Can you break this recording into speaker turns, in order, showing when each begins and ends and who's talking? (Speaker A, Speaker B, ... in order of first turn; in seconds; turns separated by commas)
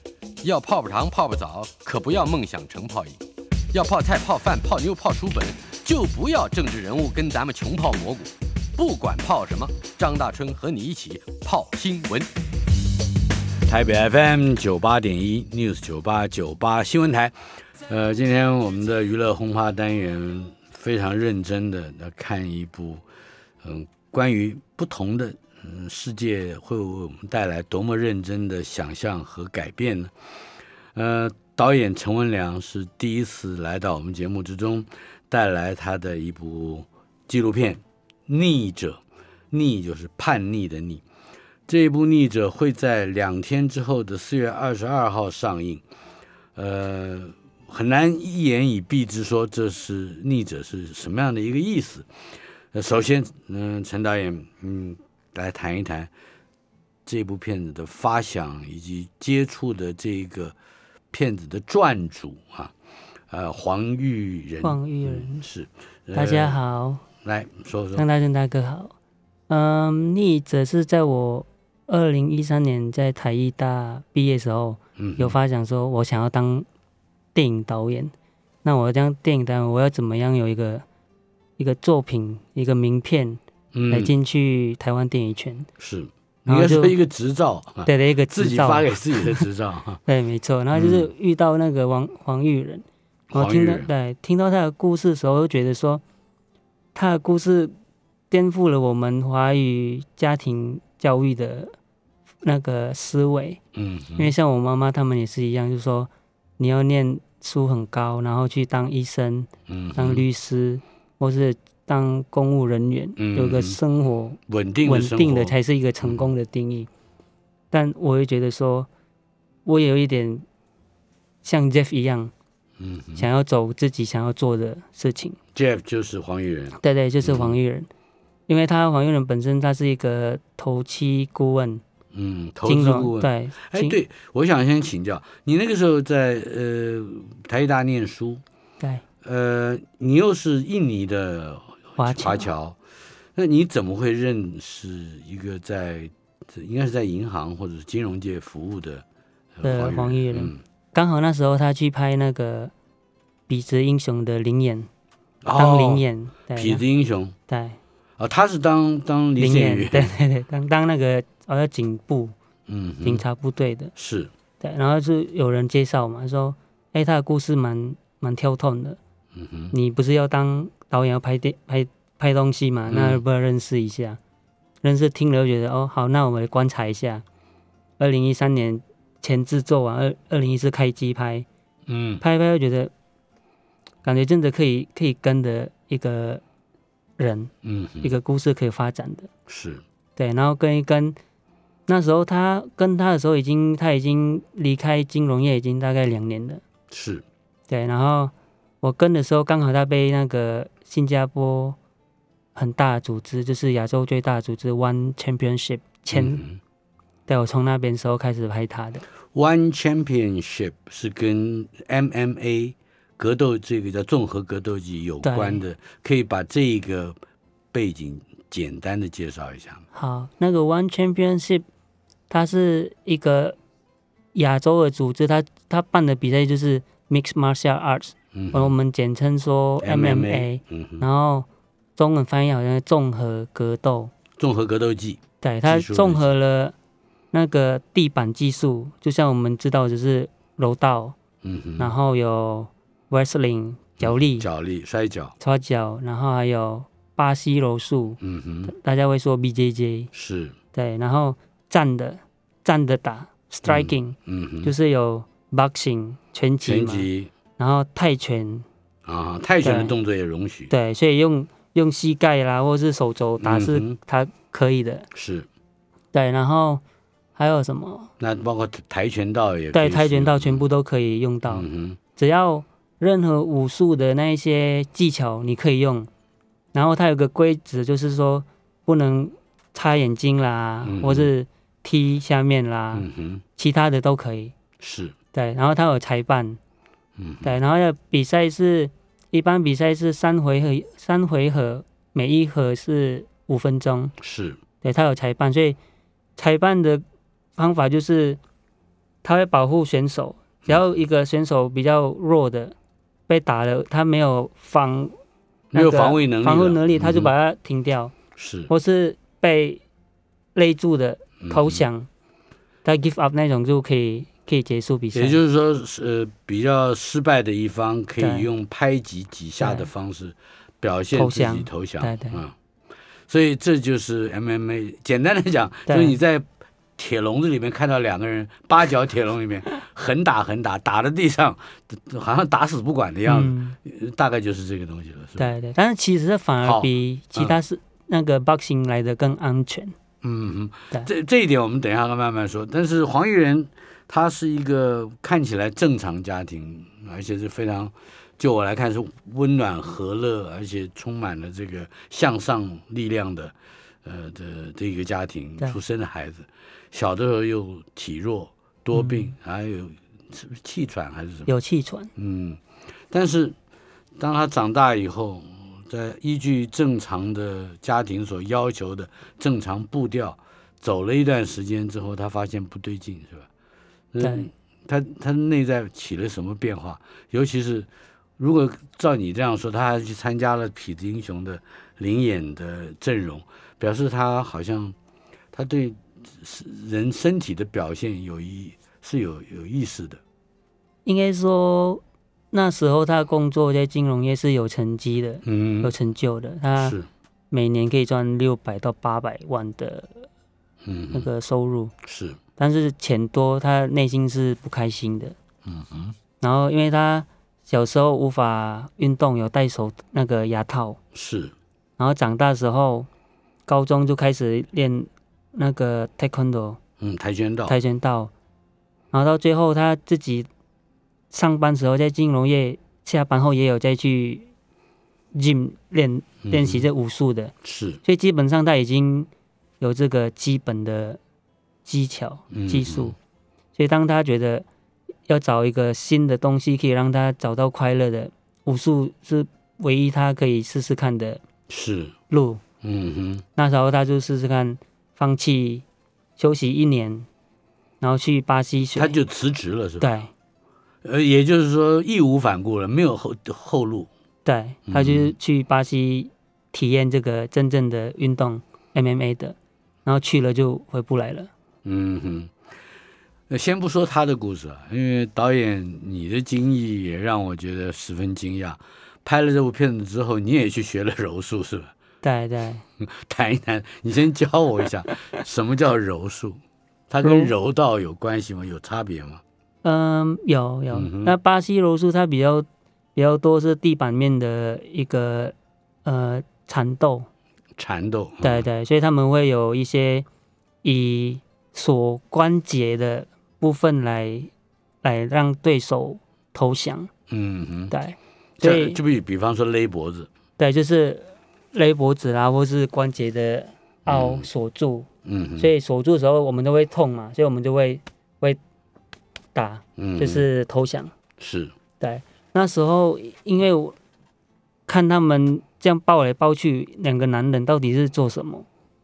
Speaker A: 0.4-3.2, Speaker A: 3.7-12.3, Speaker B: 13.6-23.0, Speaker B: 23.6-30.1, Speaker B: 30.9-41.0, Speaker B: 41.7-45.8, Speaker B: 46.5-52.1, Speaker B: 52.7-56.1, Speaker B: 57.0-60.5, Speaker B: 61.1-62.7, Speaker B: 63.3-66.6, Speaker C: 64.6-65.5, Speaker C: 66.1-67.0, Speaker B: 67.2-68.0, Speaker C: 68.0-68.9, Speaker C: 69.5-76.7, Speaker B: 75.0-75.3, Speaker C: 77.3-78.1, Speaker C: 78.6-80.8, Speaker C: 81.6-85.7, Speaker B: 83.7-84.1, Speaker B: 85.8-90.0, Speaker C: 86.5-86.9, Speaker C: 87.8-89.4, Speaker C: 90.0-96.0, Speaker B: 90.7-91.1, Speaker B: 93.3-93.9, Speaker C: 96.9-97.7, Speaker C: 98.3-101.7, Speaker C: 102.4-103.6, Speaker B: 103.7-104.3, Speaker C: 104.2-116.9, Speaker B: 109.7-110.2, Speaker B: 113.2-113.8, Speaker B: 114.5-116.3, Speaker C: 117.7-118.9, Speaker C: 119.6-120.4, Speaker C: 121.4-122.3, Speaker B: 122.8-123.2, Speaker C: 123.2-125.4, Speaker B: 125.5-127.6, Speaker C: 126.8-127.9, Speaker C: 128.5-131.8, Speaker B: 132.1-138.4, Speaker C: 132.6-134.0, Speaker B: 139.2-142.8, Speaker C: 142.0-142.5, Speaker B: 143.3-149.0, Speaker B: 149.6-150.6, Speaker C: 149.6-152.7, Speaker C: 153.5-154.9, Speaker B: 155.4-157.3, Speaker C: 155.5-156.8, Speaker C: 157.5-157.8, Speaker B: 158.2-160.1, Speaker C: 159.4-162.3, Speaker B: 162.7-163.2, Speaker C: 163.0-163.9, Speaker B: 163.9-164.3, Speaker C: 164.6-169.0, Speaker B: 169.3-169.7, Speaker C: 169.7-174.2, Speaker B: 172.9-173.2, Speaker C: 174.8-177.2, Speaker C: 178.0-181.5, Speaker B: 181.9-182.2, Speaker C: 182.2-182.9, Speaker C: 184.0-186.4, Speaker C: 187.2-189.3, Speaker B: 187.6-188.1, Speaker B: 189.5-189.8, Speaker C: 190.2-191.2, Speaker C: 191.9-196.6, Speaker B: 196.9-197.2, Speaker C: 197.7-201.8, Speaker C: 202.5-206.4, Speaker B: 206.1-206.6, Speaker C: 207.3-209.0, Speaker B: 209.3-217.2, Speaker C: 215.2-215.6, Speaker B: 217.7-219.8, Speaker C: 219.9-221.7, Speaker C: 222.3-223.6, Speaker C: 224.3-234.1, Speaker B: 228.3-228.7, Speaker B: 229.8-231.1, Speaker B: 234.4-236.2, Speaker C: 235.4-236.7, Speaker C: 237.3-241.2, Speaker B: 241.4-241.9, Speaker C: 241.8-244.5, Speaker B: 244.0-245.3, Speaker C: 245.4-250.1, Speaker B: 248.2-248.7, Speaker B: 250.1-250.5, Speaker C: 250.7-258.6, Speaker B: 253.7-254.7, Speaker B: 256.6-257.3, Speaker B: 259.0-260.7, Speaker C: 259.6-259.9, Speaker C: 260.7-265.1, Speaker B: 263.4-264.0, Speaker B: 265.1-265.5, Speaker C: 266.1-266.8, Speaker C: 267.4-268.1, Speaker B: 268.2-270.6, Speaker C: 269.7-271.6, Speaker B: 271.5-272.0, Speaker C: 272.2-276.1, Speaker C: 276.7-284.5, Speaker B: 280.8-281.3, Speaker B: 282.9-283.4, Speaker B: 284.8-285.1, Speaker C: 285.3-286.6, Speaker B: 287.2-287.6, Speaker C: 287.4-294.1, Speaker B: 294.2-294.6, Speaker C: 294.8-295.8, Speaker C: 296.4-297.0, Speaker C: 297.6-298.4, Speaker C: 299.2-302.7, Speaker B: 300.6-300.9, Speaker C: 303.3-305.1, Speaker B: 305.7-307.3, Speaker C: 305.7-308.1, Speaker B: 308.4-308.7, Speaker C: 308.7-309.8, Speaker C: 310.5-312.1, Speaker B: 311.4-311.8, Speaker C: 312.8-315.4, Speaker B: 315.1-322.5, Speaker C: 318.2-318.5, Speaker C: 319.6-319.9, Speaker C: 321.1-322.4, Speaker B: 323.3-335.5, Speaker C: 325.9-326.2, Speaker C: 333.2-333.8, Speaker C: 335.4-339.9, Speaker B: 336.6-337.6, Speaker B: 340.2-361.5, Speaker C: 358.9-359.3, Speaker C: 361.5-362.1, Speaker B: 362.1-363.6, Speaker B: 364.2-373.5, Speaker B: 374.1-384.9, Speaker C: 374.2-374.5, Speaker B: 385.5-390.2, Speaker C: 391.0-397.0, Speaker B: 395.4-395.9, Speaker B: 396.8-397.1, Speaker C: 397.5-400.3, Speaker B: 400.8-401.3, Speaker C: 401.1-401.9, Speaker B: 402.0-402.4, Speaker C: 402.6-405.4, Speaker B: 405.6-406.1, Speaker C: 406.4-411.0, Speaker B: 411.1-411.5, Speaker C: 412.0-413.1, Speaker C: 413.7-416.8, Speaker B: 417.0-417.8, Speaker C: 417.7-418.3, Speaker C: 419.1-420.5, Speaker C: 421.3-424.5, Speaker C: 425.3-427.5, Speaker B: 426.4-426.9, Speaker B: 427.6-428.0, Speaker C: 428.0-429.3, Speaker C: 429.8-431.2, Speaker C: 431.8-433.1, Speaker B: 432.5-433.1, Speaker C: 433.8-434.6, Speaker C: 435.3-441.4, Speaker B: 441.7-442.1, Speaker C: 442.3-442.6, Speaker B: 442.8-443.4, Speaker C: 443.6-445.8, Speaker C: 446.4-447.3, Speaker C: 448.0-449.2, Speaker B: 448.9-450.1, Speaker C: 450.0-450.3, Speaker B: 451.0-454.1, Speaker C: 454.4-461.5, Speaker B: 454.9-455.3, Speaker B: 461.8-462.5, Speaker B: 463.5-471.9, Speaker C: 472.2-472.8, Speaker B: 473.0-479.4, Speaker C: 477.2-477.5, Speaker C: 479.8-487.3, Speaker B: 480.9-481.3, Speaker B: 487.8-488.7, Speaker C: 488.4-490.2, Speaker C: 490.8-494.5, Speaker C: 495.0-497.1, Speaker B: 497.3-497.9, Speaker C: 497.9-499.0, Speaker B: 498.6-500.3, Speaker C: 500.6-505.1, Speaker B: 504.1-504.5, Speaker B: 505.2-505.7, Speaker C: 505.6-508.6, Speaker C: 509.5-511.1, Speaker B: 510.0-510.4, Speaker B: 511.4-511.7, Speaker C: 512.0-514.0, Speaker C: 514.9-518.7